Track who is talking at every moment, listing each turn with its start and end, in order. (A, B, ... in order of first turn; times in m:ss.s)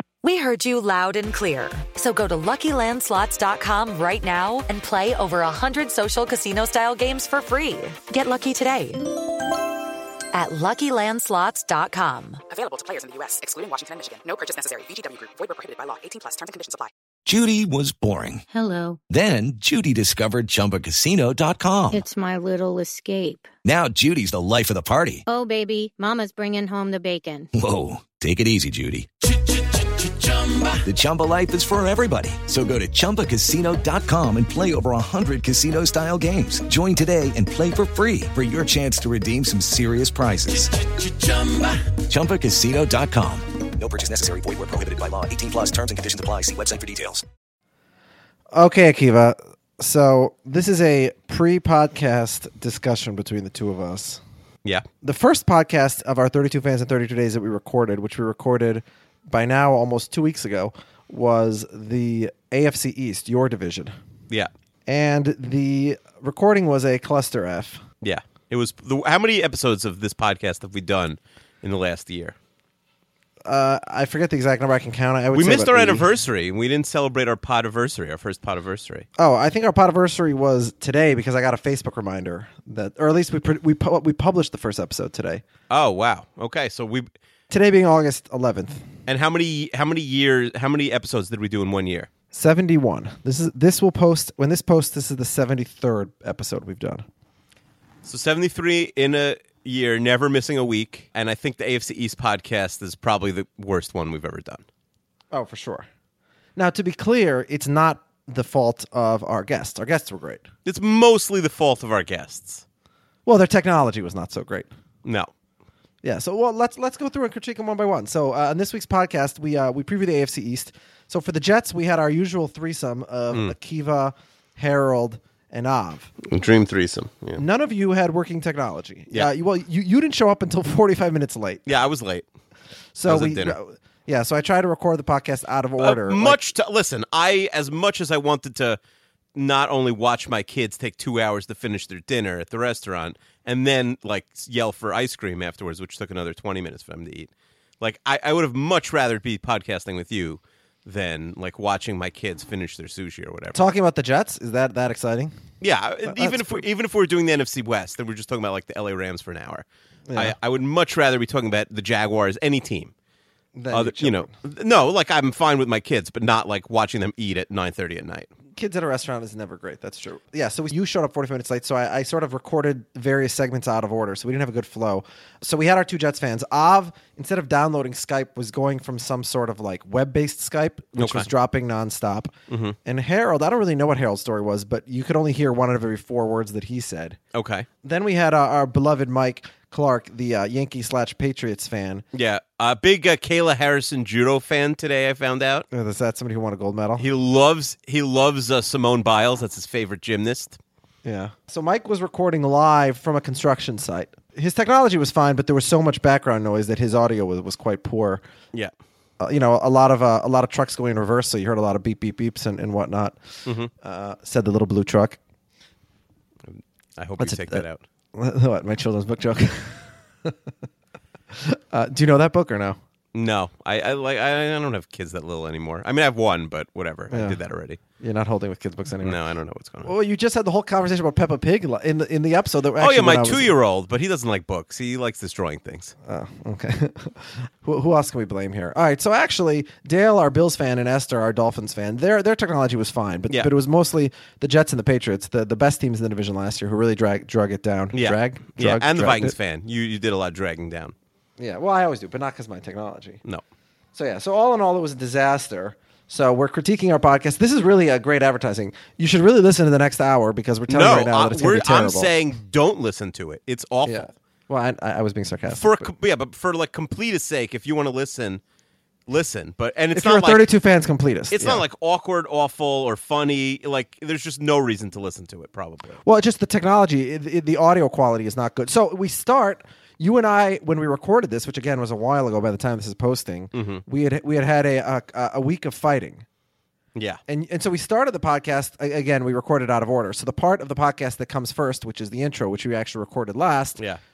0:00.2-0:09.0 A
0:10.3-0:12.4 A
0:12.5-0:16.9 B
0:17.2-0:18.4 C
0:18.5-0:19.0 D
0:19.1-0:22.0 C
0:21.9-0:23.5 D
0:23.6-0:25.2 C
0:25.2-0:27.5 D
0:27.5-0:29.1 C
0:30.8-0:40.8 C
0:42.1-0:43.5 C
0:43.8-0:47.2 E
0:48.5-0:54.2 F
0:55.0-1:03.9 F
1:04.8-1:07.8 F
1:08.0-1:12.4 G
1:13.4-1:16.0 F
1:15.3-1:19.1 G
1:19.2-1:25.4 F
1:25.7-1:27.1 G
1:27.5-1:28.9 F
1:29.1-1:32.1 G
1:32.3-1:37.0 F
1:38.0-1:44.6 G
1:45.3-1:45.9 F
1:46.6-1:50.5 F
1:50.6-1:52.6 G
1:53.2-1:54.7 F
1:55.0-1:55.3 G
1:56.0-2:06.1 F
2:06.2-2:07.4 G
2:07.4-2:11.6 F
2:11.6-2:12.2 G
2:12.9-2:16.4 F
2:13.0-2:13.6 G
2:15.8-2:18.8 G
2:19.3-2:33.6 G
2:33.5-2:35.4 F
2:35.6-2:42.9 G
2:36.0-2:36.6 F
2:40.1-2:40.3 F
2:43.5-2:44.3 F
2:43.7-2:48.3 G
2:48.5-3:02.3 F
3:01.0-3:01.3 G
3:02.5-3:02.8 G
3:02.8-3:07.2 F
3:07.3-3:07.7 G
3:07.8-3:12.0 F
3:12.1-3:15.6 G
3:15.7-3:17.1 F
3:17.0-3:20.6 G
3:21.0-3:28.2 F
3:29.2-3:33.2 F
3:33.4-3:33.7 G
3:33.7-3:35.2 F
3:36.5-3:37.8 G
3:37.2-3:40.4 F
3:41.3-3:42.8 F
3:43.1-3:47.8 G
3:47.1-3:47.4 F
3:48.0-3:49.2 F
3:49.0-3:49.9 G
3:49.8-3:53.5 F
3:52.8-3:55.9 G
3:56.0-4:09.3 F
4:07.9-4:10.9 G
4:11.4-4:13.2 F
4:13.9-4:22.1 F
4:20.7-4:24.1 G
4:23.8-4:25.9 F
4:25.5-4:28.4 G
4:29.1-4:30.5 G
4:29.9-4:31.6 F
4:31.3-4:36.0 G
4:36.0-4:46.2 F
4:43.5-4:43.8 G
4:46.9-4:47.2 G
4:47.3-4:53.8 F